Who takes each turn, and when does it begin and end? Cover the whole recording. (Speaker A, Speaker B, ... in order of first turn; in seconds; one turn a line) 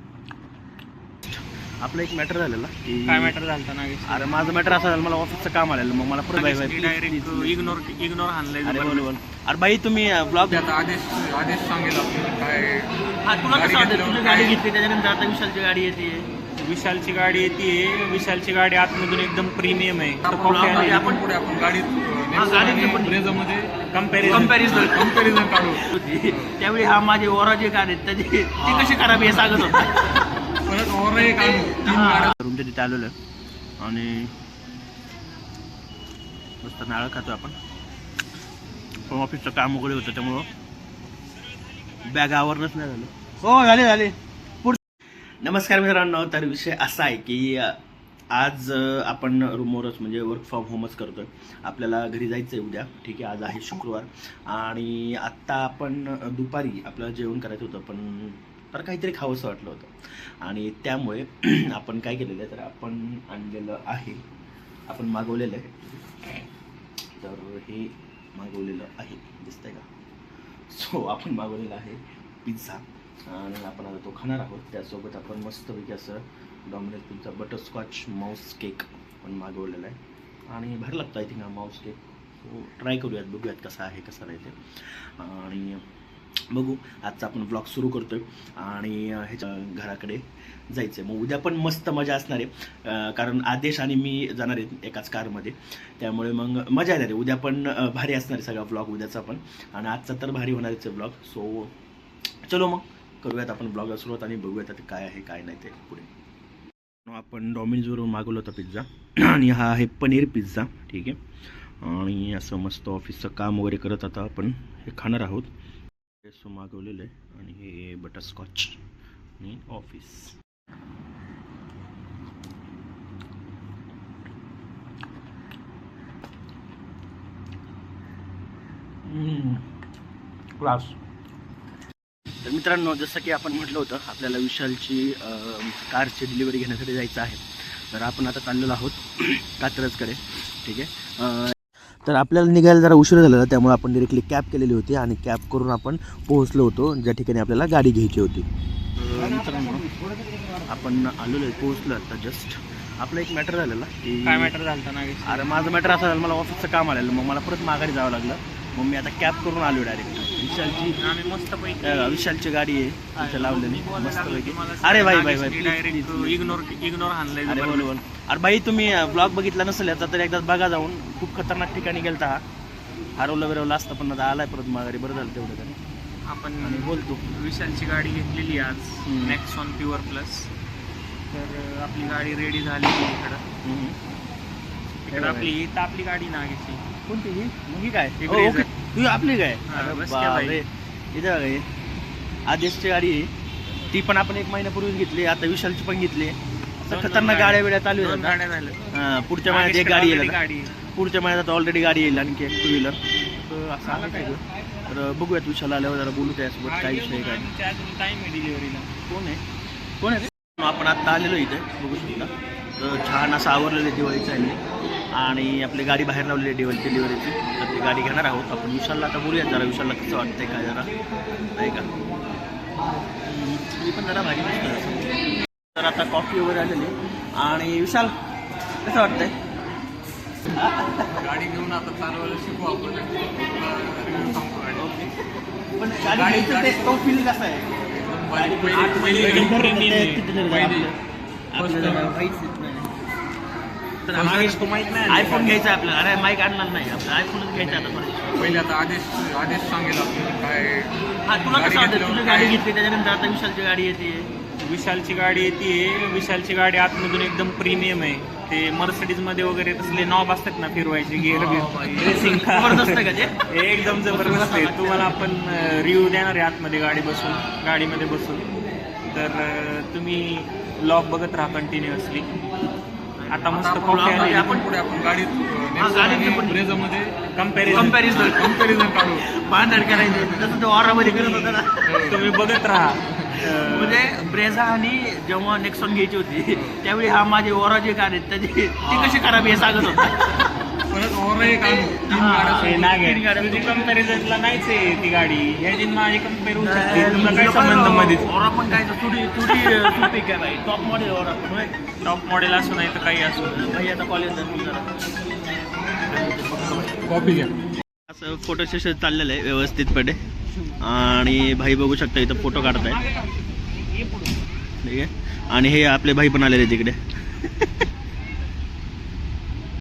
Speaker A: 1.2-3.4
Speaker B: 3.1-4.3
Speaker A: 4.1-7.8
Speaker B: 6.3-9.1
Speaker A: 8.6-10.7
Speaker C: 10.5-14.6
Speaker A: 13.2-16.3
Speaker B: 16.6-21.2
Speaker C: 20.2-26.5
Speaker A: 20.4-21.2
Speaker A: 22.3-23.3
Speaker B: 23.9-24.7
Speaker A: 24.2-30.0
Speaker C: 28.6-29.8
Speaker C: 30.6-32.4
Speaker A: 31.8-33.1
Speaker A: 33.8-34.3
Speaker A: 36.6-37.6
Speaker A: 39.0-40.5
Speaker A: 42.0-44.8
Speaker A: 45.4-47.8
Speaker A: 48.3-64.2
Speaker A: 64.9-66.4
Speaker A: 67.2-69.9
Speaker A: 70.7-85.8
Speaker A: 86.5-101.7
Speaker A: 102.4-106.1
Speaker A: 107.0-115.5
Speaker A: 116.2-118.8
Speaker A: 119.4-120.4
Speaker A: 129.0-129.7
Speaker A: 130.6-131.0
Speaker A: 132.4-149.9
Speaker A: 150.6-154.5
Speaker B: 154.2-155.5
Speaker A: 155.2-161.1
Speaker B: 160.8-162.3
Speaker A: 161.8-166.6
Speaker B: 163.1-167.9
Speaker A: 167.4-172.4
Speaker A: 173.2-175.8
Speaker B: 176.2-180.5
Speaker A: 176.6-177.2
Speaker A: 179.0-179.4
Speaker B: 181.3-183.4
Speaker A: 183.6-184.0
Speaker B: 185.0-186.8
Speaker A: 185.1-185.5
Speaker A: 187.1-191.7
Speaker B: 188.2-188.7
Speaker B: 189.7-190.6
Speaker A: 192.5-193.3
Speaker A: 193.9-198.3
Speaker B: 196.9-198.9
Speaker A: 198.9-207.5
Speaker B: 199.4-200.8
Speaker B: 206.6-208.9
Speaker A: 209.1-209.4
Speaker A: 210.0-220.9
Speaker A: 221.6-221.9
Speaker A: 223.2-225.2
Speaker A: 225.7-228.1
Speaker A: 228.8-229.3
Speaker A: 230.5-231.2
Speaker C: 231.1-234.8
Speaker B: 234.1-234.4
Speaker A: 234.8-235.1
Speaker A: 235.7-241.0
Speaker C: 236.0-237.1
Speaker C: 237.8-239.6
Speaker B: 238.7-240.8
Speaker C: 240.5-240.9
Speaker A: 241.5-242.9
Speaker C: 241.5-242.2
Speaker A: 244.1-248.5
Speaker B: 244.1-245.6
Speaker C: 247.5-252.6
Speaker A: 251.2-254.3
Speaker B: 254.6-268.5
Speaker A: 261.2-265.2
Speaker B: 269.1-272.3
Speaker A: 273.2-274.7
Speaker B: 273.3-274.6
Speaker C: 273.5-282.3
Speaker A: 275.8-276.6
Speaker B: 277.3-278.1
Speaker A: 277.7-278.6
Speaker A: 279.1-282.4
Speaker B: 282.0-284.1
Speaker A: 283.3-290.3
Speaker C: 286.5-286.8
Speaker C: 288.8-290.0
Speaker C: 290.9-292.8
Speaker A: 291.6-294.2
Speaker B: 292.6-298.3
Speaker A: 296.6-301.8
Speaker B: 302.0-303.8
Speaker A: 303.3-304.9
Speaker A: 306.1-306.9
Speaker C: 307.0-307.5
Speaker A: 308.1-310.2
Speaker A: 310.8-313.0
Speaker A: 314.8-317.0